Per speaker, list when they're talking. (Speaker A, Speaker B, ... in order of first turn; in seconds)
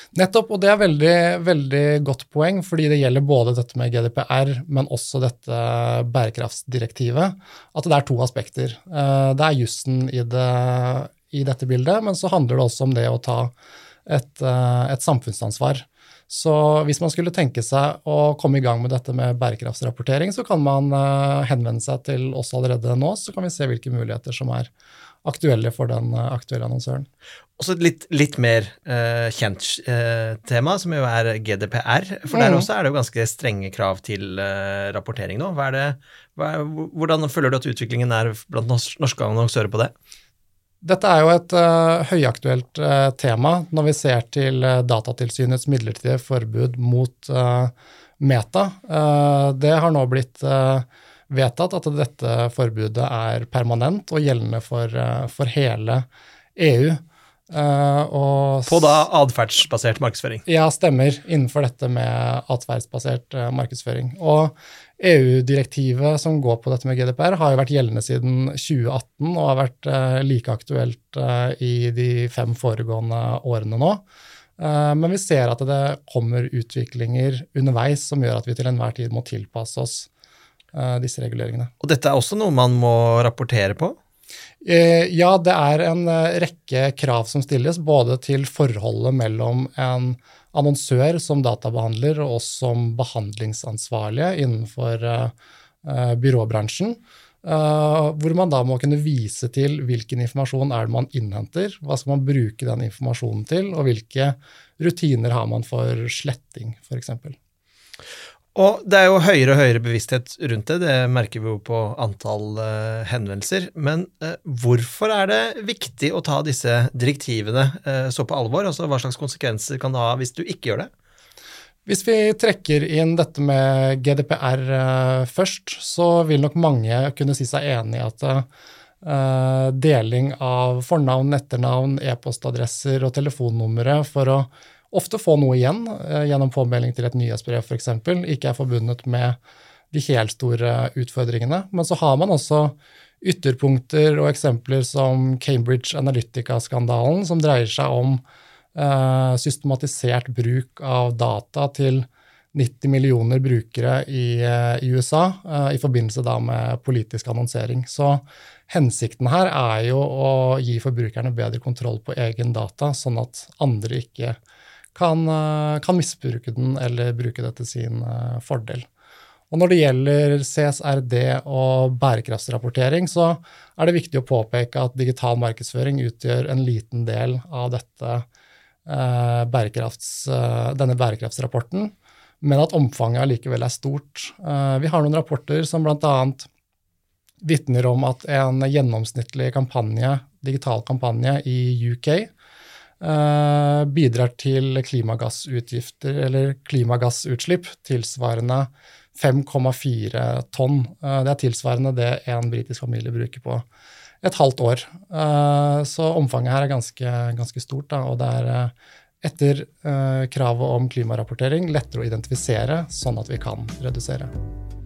Speaker A: 0.1-13.5, 14.1-24.7, 25.2-27.1, 32.3-32.7, 40.8-59.0, 60.5-74.0, 74.6-80.1, 80.7-81.7, 84.6-95.3, 95.8-107.4, 121.9-128.5, 129.0-139.4, 139.9-148.2, 148.8-164.4, 164.9-168.9, 169.5-178.3, 178.9-186.5, 187.4-192.3, 193.0-203.7, 204.2-214.3
Speaker B: 27.6-39.9, 58.7-60.4, 81.8-84.0, 108.5-120.9